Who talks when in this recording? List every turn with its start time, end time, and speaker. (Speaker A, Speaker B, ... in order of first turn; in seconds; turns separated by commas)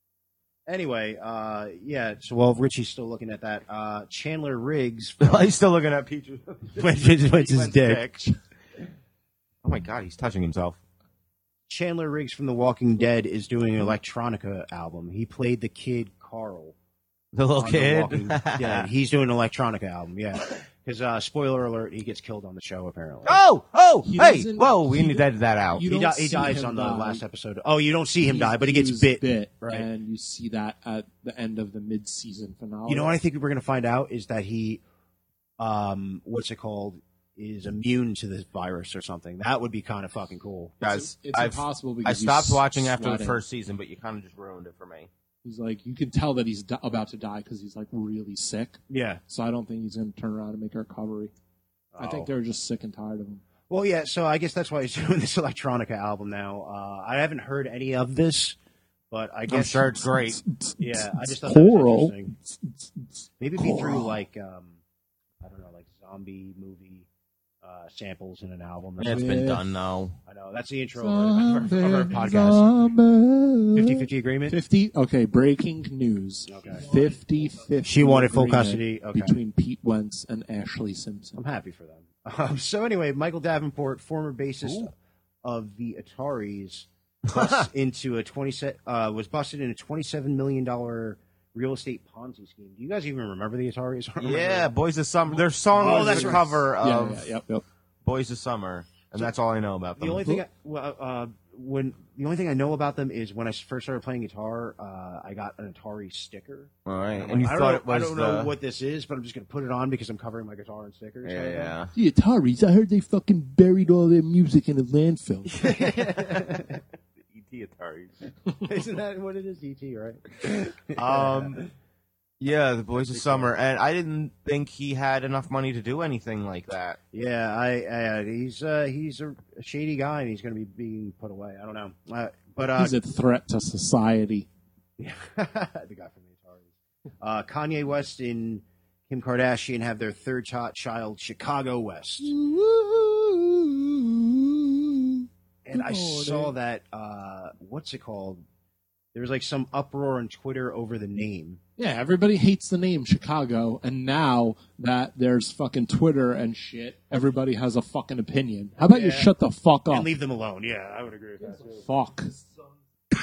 Speaker A: 0.7-5.5, Speaker B: 5.2-8.3, Speaker A: 6.8-8.2, Speaker B: 9.6-10.8, Speaker A: 11.7-16.7, Speaker B: 17.3-18.9, Speaker A: 17.6-23.4, Speaker B: 23.2-25.8, Speaker C: 24.0-27.2, Speaker A: 25.8-29.9, Speaker C: 28.2-33.1, Speaker A: 32.9-34.8, Speaker A: 35.6-40.7, Speaker B: 40.8-45.1, Speaker C: 40.8-43.4, Speaker C: 45.4-51.3, Speaker A: 48.9-49.2, Speaker A: 51.9-52.3, Speaker C: 52.0-53.4, Speaker A: 53.7-58.6, Speaker A: 59.1-60.0, Speaker B: 59.5-60.4, Speaker C: 60.1-64.2, Speaker A: 60.8-62.3, Speaker A: 63.4-64.8, Speaker A: 65.4-67.1, Speaker A: 67.6-69.4, Speaker B: 69.0-70.2, Speaker C: 69.1-69.6, Speaker A: 70.3-72.7, Speaker C: 71.0-81.4, Speaker A: 73.7-74.6, Speaker A: 76.5-76.8, Speaker A: 77.8-79.4, Speaker A: 81.4-84.9, Speaker B: 84.6-84.9, Speaker A: 85.4-94.7, Speaker B: 87.3-87.7, Speaker B: 94.2-97.3, Speaker C: 95.8-97.6, Speaker A: 95.8-96.6, Speaker B: 98.0-100.3, Speaker A: 100.0-111.8, Speaker B: 106.8-108.5, Speaker B: 111.2-111.9, Speaker C: 111.9-115.7, Speaker B: 115.5-116.7, Speaker A: 115.6-116.8, Speaker B: 117.3-118.1, Speaker A: 118.6-121.7, Speaker B: 120.9-121.6, Speaker B: 122.4-127.0, Speaker A: 123.1-123.5, Speaker A: 127.1-132.9, Speaker C: 132.8-134.5, Speaker A: 135.0-136.7, Speaker A: 137.2-142.3, Speaker C: 142.2-146.5, Speaker A: 145.6-148.4, Speaker A: 149.1-151.6, Speaker C: 151.8-160.1, Speaker A: 158.8-159.3, Speaker A: 159.9-161.7, Speaker C: 161.4-162.4